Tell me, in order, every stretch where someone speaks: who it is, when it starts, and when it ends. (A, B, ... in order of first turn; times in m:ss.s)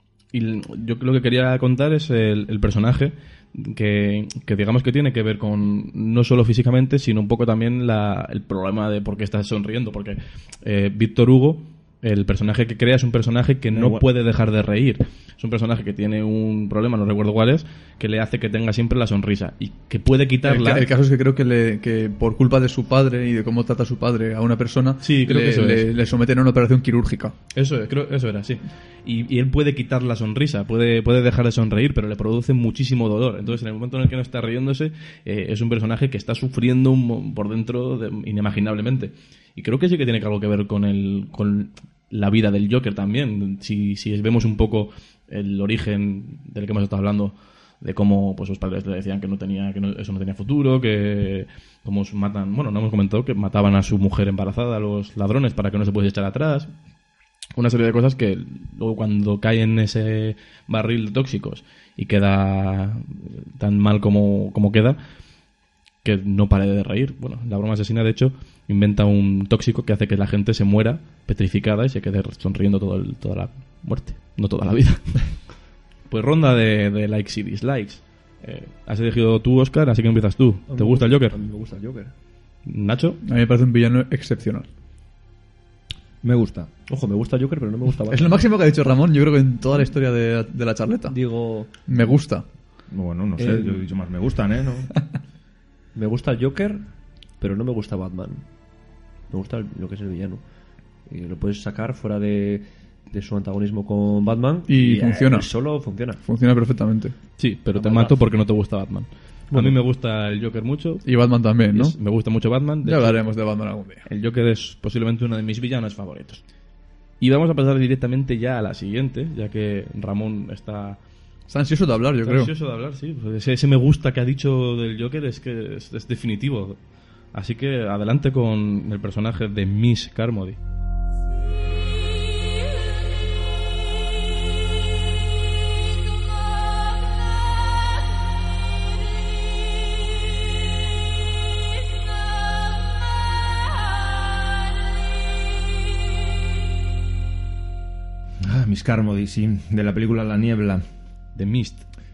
0:00.3-0:20.9 A
0:13.7-0:14.0 B
0:20.4-0:27.4 C
0:25.0-0:25.9 A
0:27.6-0:56.7 A
0:57.6-1:05.0 A
1:06.0-1:15.4 A
1:16.1-1:21.4 A
1:20.7-1:22.1 D
1:22.7-1:23.2 A
1:23.2-1:24.7 C
1:26.2-1:26.7 B
1:26.9-1:28.4 D
1:28.1-1:31.2 C
1:31.1-1:31.8 D
1:31.8-1:32.4 C
1:32.9-1:34.9 B
1:33.4-1:33.8 D
1:35.9-1:36.8 D
1:37.4-1:38.4 D
1:39.3-1:40.4 D
1:41.1-1:46.2 D
1:44.7-1:45.5 C
1:46.2-1:47.2 C
1:47.4-1:51.0 A
1:47.8-1:48.2 D
1:49.5-1:49.8 D
1:51.0-1:52.0 C
1:51.7-1:53.2 A
1:52.8-1:54.1 C
1:54.1-1:56.4 A
1:57.2-2:01.0 A
2:01.5-2:02.5 C
2:02.2-2:06.8 A
2:07.3-2:10.6 A
2:28.4-2:30.8 B
2:31.4-2:31.8 A